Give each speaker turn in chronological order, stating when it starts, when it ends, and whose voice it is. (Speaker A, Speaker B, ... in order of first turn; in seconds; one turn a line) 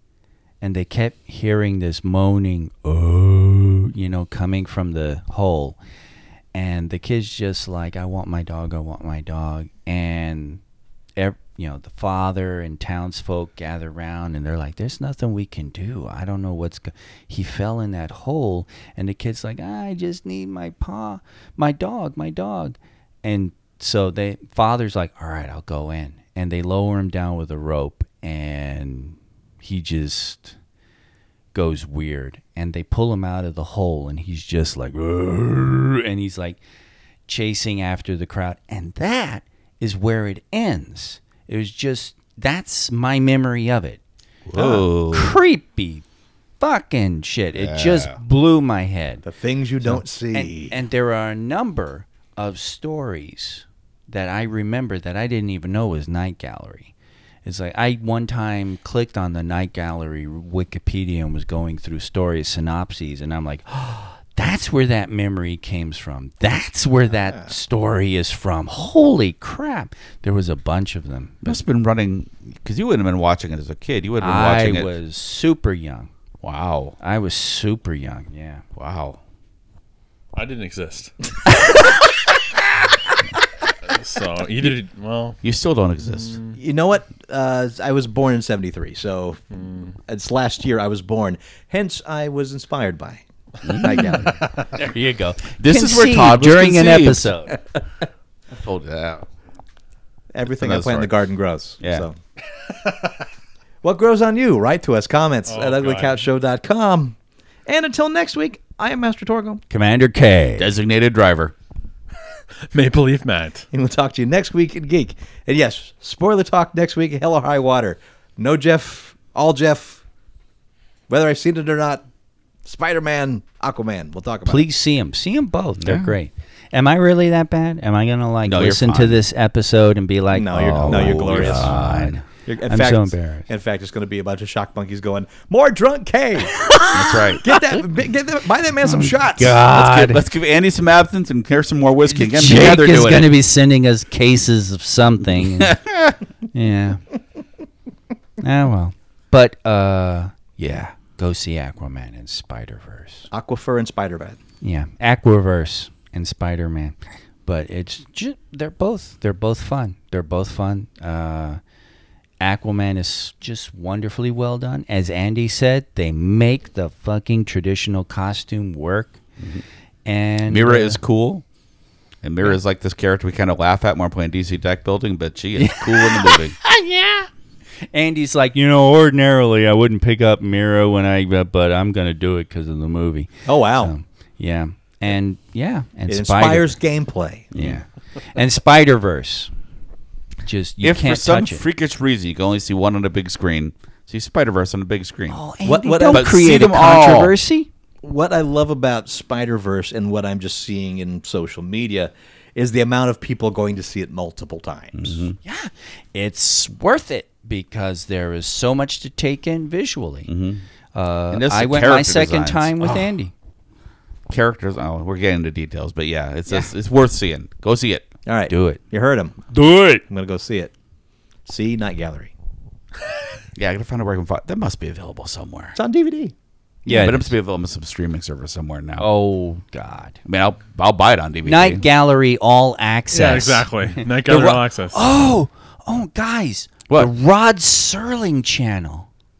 Speaker A: 0.6-5.8
Speaker A: 6.5-10.6
Speaker A: 11.2-30.6
Speaker A: 31.5-36.6
Speaker A: 37.3-44.0
Speaker B: 44.5-45.4
Speaker C: 44.5-44.8
Speaker A: 45.1-46.0
Speaker A: 46.6-49.2
Speaker B: 47.6-48.1
Speaker C: 49.2-50.7
Speaker A: 49.8-56.9
Speaker A: 57.4-71.6
Speaker B: 71.4-74.9
Speaker A: 74.2-76.1
Speaker B: 76.4-77.0
Speaker A: 77.0-78.6
Speaker B: 78.8-79.2
Speaker D: 80.3-81.1
Speaker D: 83.8-85.4
Speaker B: 85.4-86.4
Speaker D: 86.0-86.5
Speaker C: 86.5-89.4
Speaker D: 89.5-89.9
Speaker C: 90.0-93.2
Speaker B: 93.6-94.3
Speaker C: 93.8-94.7
Speaker A: 93.9-94.1
Speaker A: 94.7-97.6
Speaker B: 95.6-97.3
Speaker B: 98.5-99.2
Speaker C: 100.3-102.2
Speaker B: 100.6-101.1
Speaker B: 101.8-102.0
Speaker C: 103.8-109.6
Speaker D: 105.5-106.2
Speaker A: 109.7-110.7
Speaker B: 110.6-111.5
Speaker D: 112.7-113.7
Speaker C: 113.7-120.0
Speaker C: 121.1-122.0
Speaker C: 122.6-124.6
Speaker A: 124.5-133.5
Speaker B: 125.8-126.1
Speaker B: 128.4-129.2
Speaker C: 130.3-131.8
Speaker B: 130.8-132.2
Speaker C: 132.4-136.6
Speaker A: 136.6-137.6
Speaker B: 136.9-137.4
Speaker C: 137.4-139.6
Speaker A: 138.8-140.2
Speaker B: 139.7-143.3
Speaker A: 142.1-145.8
Speaker B: 145.6-146.2
Speaker A: 146.5-147.0
Speaker A: 148.4-153.3
Speaker C: 153.3-154.4
Speaker A: 154.6-161.6
Speaker A: 162.4-169.2
Speaker A: 170.0-171.0
Speaker B: 170.5-171.4
Speaker B: 172.2-176.6
Speaker A: 175.6-177.3
Speaker A: 177.9-186.8
Speaker C: 183.4-183.9
Speaker C: 186.1-187.5
Speaker B: 187.5-187.8
Speaker A: 187.5-189.5
Speaker A: 190.4-191.6
Speaker B: 190.8-195.4
Speaker A: 195.3-197.7
Speaker C: 195.6-196.3
Speaker B: 196.1-197.3
Speaker C: 198.0-205.2
Speaker B: 204.9-205.3
Speaker A: 205.4-210.3
Speaker B: 210.3-210.6
Speaker A: 210.9-213.3
Speaker B: 211.3-213.1
Speaker B: 214.3-218.1
Speaker A: 216.5-216.7
Speaker C: 218.2-219.4
Speaker A: 218.5-218.8
Speaker A: 219.5-220.0
Speaker C: 220.1-220.7
Speaker C: 221.4-222.3
Speaker B: 223.6-225.8
Speaker C: 225.7-226.3
Speaker A: 226.8-227.3
Speaker B: 226.9-229.1
Speaker A: 229.0-230.2
Speaker B: 230.2-231.8
Speaker A: 231.4-239.1
Speaker D: 233.1-235.1